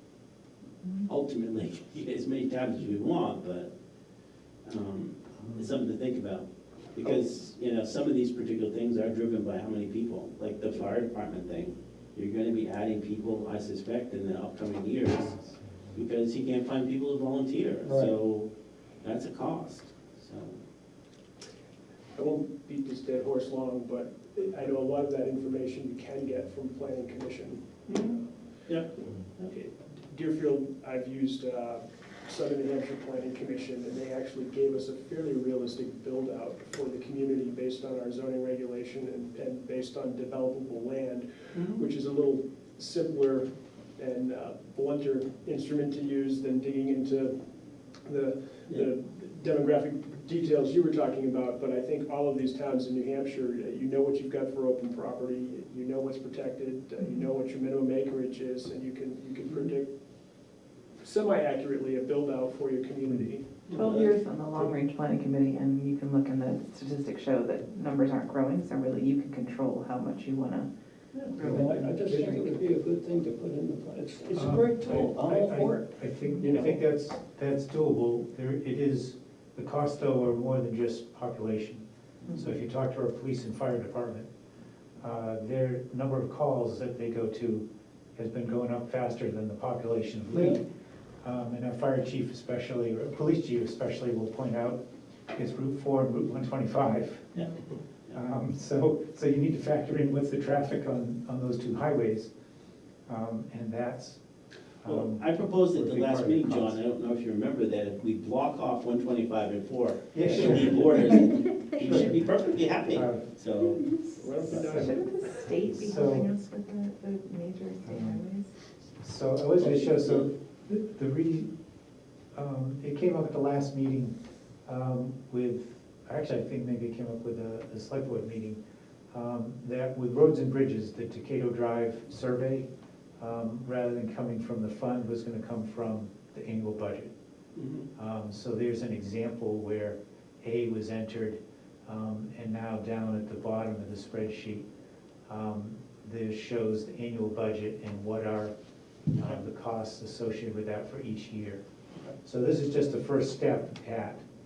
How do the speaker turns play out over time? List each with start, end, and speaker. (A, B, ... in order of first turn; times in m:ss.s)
0:01.0-0:03.7 A
0:04.6-0:15.4 A
0:15.3-0:16.1 B
0:16.0-0:18.5 A
0:17.9-0:18.2 C
0:19.0-0:20.6 A
0:22.2-0:27.7 D
0:27.9-0:29.6 A
0:29.5-0:47.3 D
0:41.5-0:41.8 A
0:48.1-0:59.9 D
1:01.0-1:03.6 D
1:03.7-1:04.2 A
1:03.7-1:10.7 E
1:11.2-1:15.8 C
1:11.4-1:11.9 E
1:14.3-1:24.3 B
1:16.4-1:16.8 C
1:25.0-1:27.6 B
1:28.2-1:30.6 B
1:30.3-1:30.6 A
1:31.2-1:34.8 B
1:35.3-1:37.4 B
1:37.4-1:38.2 A
1:38.1-1:42.3 B
1:43.1-1:44.2 B
1:44.8-1:46.8 B
1:44.8-1:53.9 A
1:50.1-1:51.3 B
1:51.8-1:52.2 B
1:52.9-1:53.3 B
1:54.2-1:55.1 D
1:54.5-1:54.8 A
1:54.6-1:54.9 B
1:54.7-1:58.5 E
1:55.6-1:56.3 B
1:57.8-1:58.2 B
1:58.9-2:01.5 B
1:59.7-2:00.3 A
2:02.3-2:04.2 B
2:04.7-2:08.6 B
2:09.1-2:12.7 B
2:13.2-2:17.1 B
2:17.6-2:17.9 A
2:18.0-2:24.7 B
2:25.3-2:28.5 B
2:29.1-2:31.6 B
2:32.2-2:34.2 B